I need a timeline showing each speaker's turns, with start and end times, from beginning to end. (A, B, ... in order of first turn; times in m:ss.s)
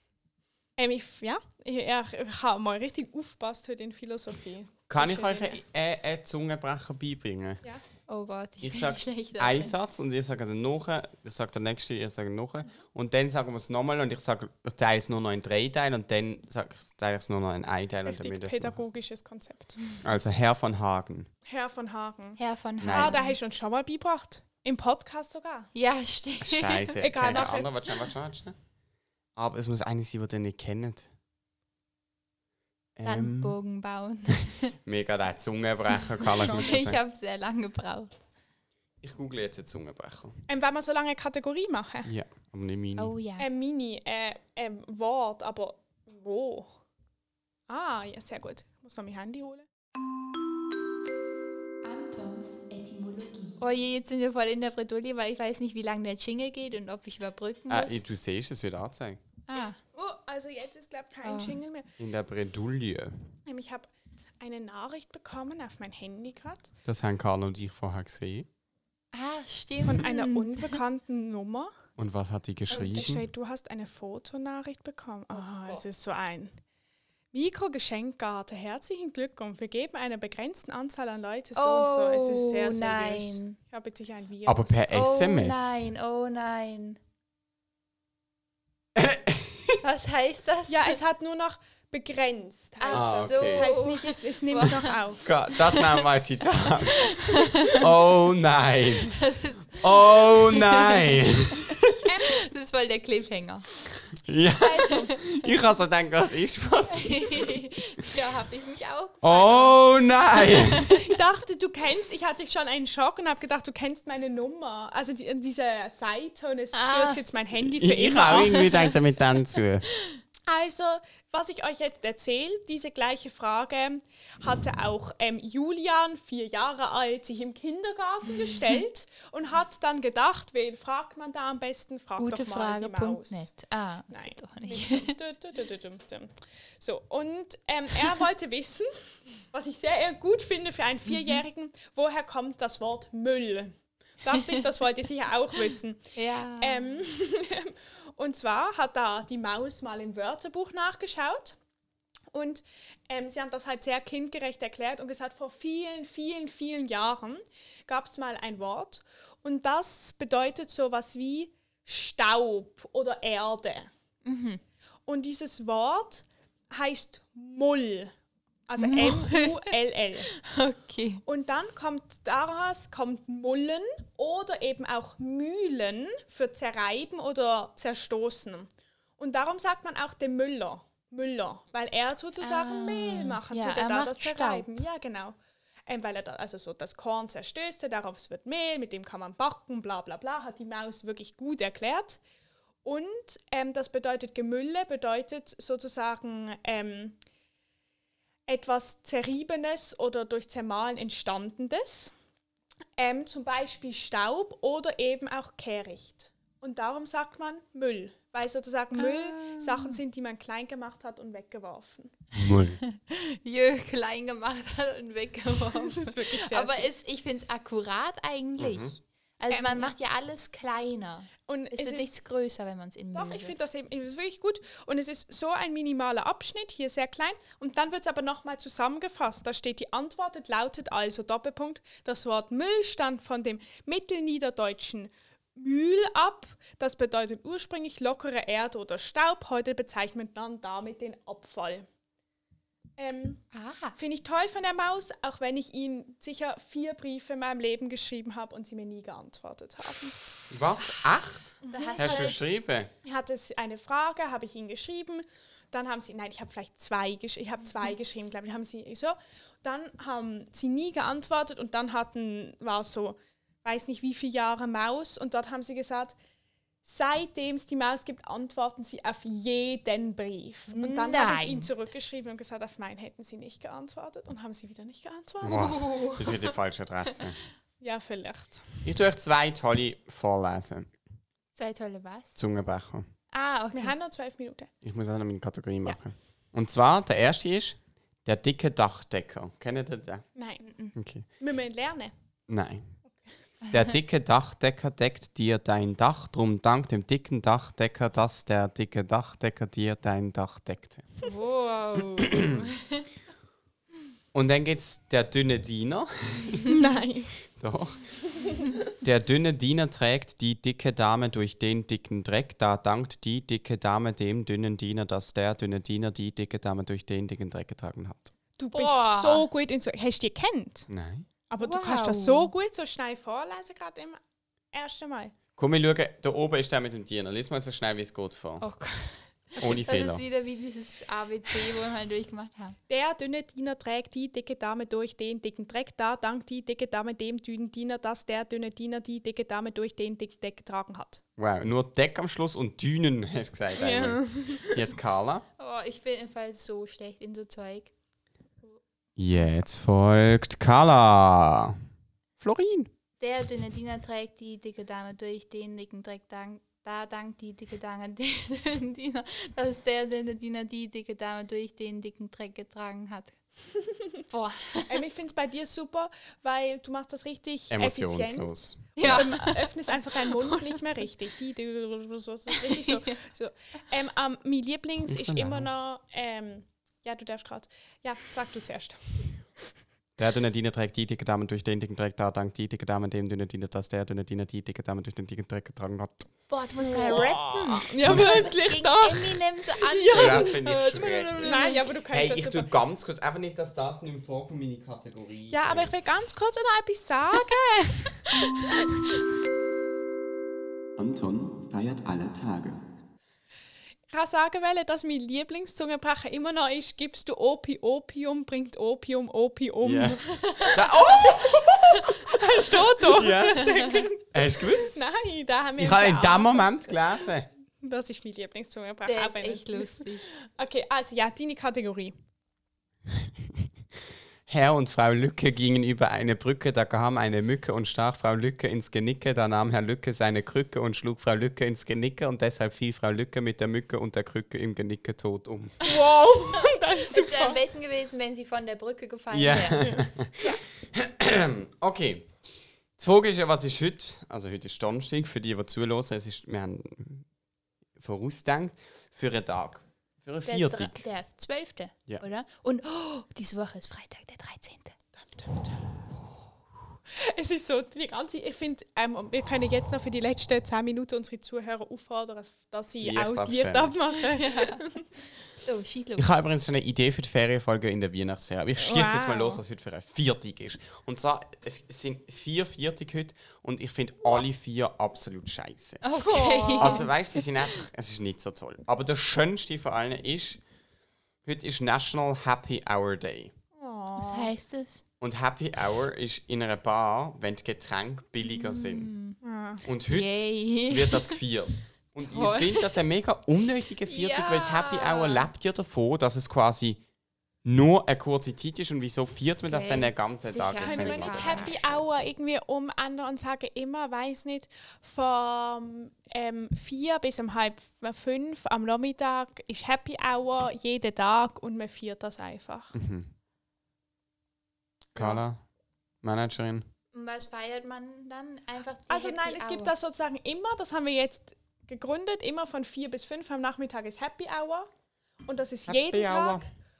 0:00.8-0:05.6 A
0:04.9-0:07.6 B
0:08.1-0:09.7 C
0:08.6-0:18.8 B
0:18.0-0:19.9 A
0:20.0-0:21.3 B
0:21.4-0:25.7 A
0:22.4-0:23.4 C
0:22.8-0:23.1 B
0:25.7-0:27.4 C
0:26.4-0:28.5 B
0:27.0-0:27.7 A
0:29.3-0:31.1 B
0:33.0-0:33.6 B
0:33.0-0:34.7 C
0:34.8-0:37.0 B
0:36.3-0:38.2 C
0:39.0-0:40.4 B
0:40.5-0:42.1 A
0:42.0-0:43.1 B
0:43.0-0:43.5 C
0:43.4-0:46.7 A
0:47.7-0:49.6 A
0:51.8-0:58.0 C
0:57.7-0:59.2 B
0:59.5-0:59.8 C
0:59.9-1:01.9 A
1:01.2-1:01.6 C
1:02.0-1:03.2 B
1:03.4-1:03.9 A
1:04.4-1:06.7 A
1:06.8-1:08.5 B
1:09.1-1:10.8 C
1:09.8-1:11.7 A
1:12.0-1:13.2 B
1:12.7-1:13.2 C
1:12.7-1:16.6 A
1:15.3-1:15.8 C
1:17.3-1:24.8 A
1:21.6-1:23.6 C
1:24.4-1:25.9 B
1:24.9-1:27.0 C
1:29.0-1:29.8 B
1:29.8-1:31.0 C
1:30.7-1:35.2 A
1:32.8-1:35.0 C
1:32.9-1:33.7 B
1:35.2-1:39.2 B
1:37.0-1:37.8 C
1:39.1-1:43.7 C
1:39.8-1:42.0 B
1:42.0-1:42.4 A
1:44.2-1:47.5 B
1:44.6-1:45.1 A
1:44.9-1:45.2 C
1:46.9-1:51.1 C
1:49.2-1:50.8 B
1:50.9-1:58.7 A
1:56.7-1:57.2 C
1:57.6-1:59.8 B
1:58.4-1:58.9 C
2:00.5-2:13.5 A
2:08.5-2:08.8 C
2:12.2-2:15.2 C
2:14.1-2:31.6 A
2:21.1-2:21.4 C
2:24.3-2:24.6 C
2:26.1-2:26.9 C
2:32.3-2:43.9 A
2:44.2-2:44.6 C
2:45.1-2:48.1 A
2:48.7-2:50.3 A
2:48.8-2:51.2 C
2:51.3-3:05.4 A
3:02.4-3:04.7 C
3:05.9-3:12.2 A
3:12.8-3:17.2 A
3:18.5-3:22.1 A
3:23.0-3:32.1 A
3:28.9-3:30.0 C
3:32.3-3:32.8 B
3:32.8-3:43.6 C
3:35.7-3:36.9 A
3:38.6-3:38.9 B
3:39.5-3:39.9 A
3:41.5-3:42.1 A
3:43.1-4:01.9 A
4:03.0-4:03.4 A
4:03.5-4:04.0 C
4:04.0-4:10.2 A
4:10.5-4:12.9 B
4:11.6-4:12.4 A
4:11.7-4:12.4 C
4:13.0-4:26.2 A
4:26.8-4:35.8 A
4:30.7-4:31.7 C
4:35.4-4:37.4 B
4:35.5-4:37.2 C
4:37.8-4:38.8 A
4:38.8-4:40.9 B
4:41.5-4:42.4 C
4:42.4-4:43.1 B
4:43.3-4:43.9 C
4:43.7-4:44.7 A
4:44.8-4:50.2 B
4:50.3-4:50.6 A
4:50.6-4:50.9 C
4:50.9-4:51.2 B
4:51.4-4:52.1 A
4:52.5-4:52.9 B
4:53.6-4:53.9 C
4:53.7-5:01.1 B
5:01.2-5:03.1 C
5:02.2-5:02.5 B
5:04.3-5:06.7 B
5:06.7-5:07.4 A
5:07.6-5:08.2 B
5:09.0-5:18.3 B
5:18.6-5:20.9 A
5:18.7-5:19.5 C
5:20.9-5:21.3 B
5:21.5-5:24.2 A
5:21.6-5:22.5 C
5:24.7-5:25.4 A
5:25.6-5:28.6 B
5:28.6-5:32.8 C
5:29.6-5:30.2 B
5:32.9-5:41.2 A
5:41.4-5:45.4 B
5:43.8-5:44.7 A
5:45.6-5:47.9 C
5:49.2-5:51.8 B
5:52.4-5:52.9 B
5:53.2-6:03.4 C
6:04.2-6:05.0 C
6:04.8-6:19.4 A
6:07.7-6:09.3 B
6:09.0-6:10.8 C
6:12.5-6:13.1 C
6:15.0-6:15.7 B
6:20.2-6:26.3 B
6:26.5-6:30.6 C
6:26.7-6:32.7 A
6:27.0-6:28.4 B
6:30.1-6:35.9 B
6:31.4-6:31.9 C
6:35.5-6:39.0 A
6:41.0-6:42.8 B
6:44.1-6:50.7 A
6:49.8-6:53.7 B
6:50.4-6:51.5 C
6:51.2-6:51.6 A
6:52.2-6:57.3 A
6:53.5-6:54.1 C
6:54.3-6:55.0 B
6:55.8-6:57.5 B
6:57.8-7:02.1 A
6:59.0-7:00.3 C
7:04.5-7:15.8 B
7:15.8-7:17.6 A
7:16.6-7:20.6 C
7:19.3-7:20.4 B
7:19.8-7:20.1 A
7:20.9-7:22.4 B
7:23.0-7:27.3 B
7:28.0-7:31.1 B
7:30.4-7:35.0 C
7:35.4-7:35.8 A
7:37.1-7:45.1 A
7:43.0-7:43.9 B
7:44.3-7:44.8 C
7:45.6-7:46.5 C
7:46.2-7:56.0 B
7:48.8-7:49.6 A
7:56.0-7:57.1 C
7:56.2-7:57.1 A
7:56.7-8:00.6 B
8:01.4-8:03.5 B
8:03.8-8:04.5 A
8:04.1-8:05.0 C
8:05.2-8:09.1 B
8:08.4-8:09.4 C
8:09.4-8:09.8 A
8:09.8-8:17.0 B
8:10.1-8:11.4 C
8:12.2-8:12.9 C
8:14.0-8:15.5 C
8:17.6-8:22.1 B
8:19.7-8:21.8 C
8:20.8-8:32.9 A
8:32.9-8:33.3 B
8:35.2-8:35.6 B
8:36.2-8:36.9 B
8:37.1-8:39.9 C
8:39.1-8:44.9 A
8:45.4-8:46.7 A
8:45.9-8:46.6 B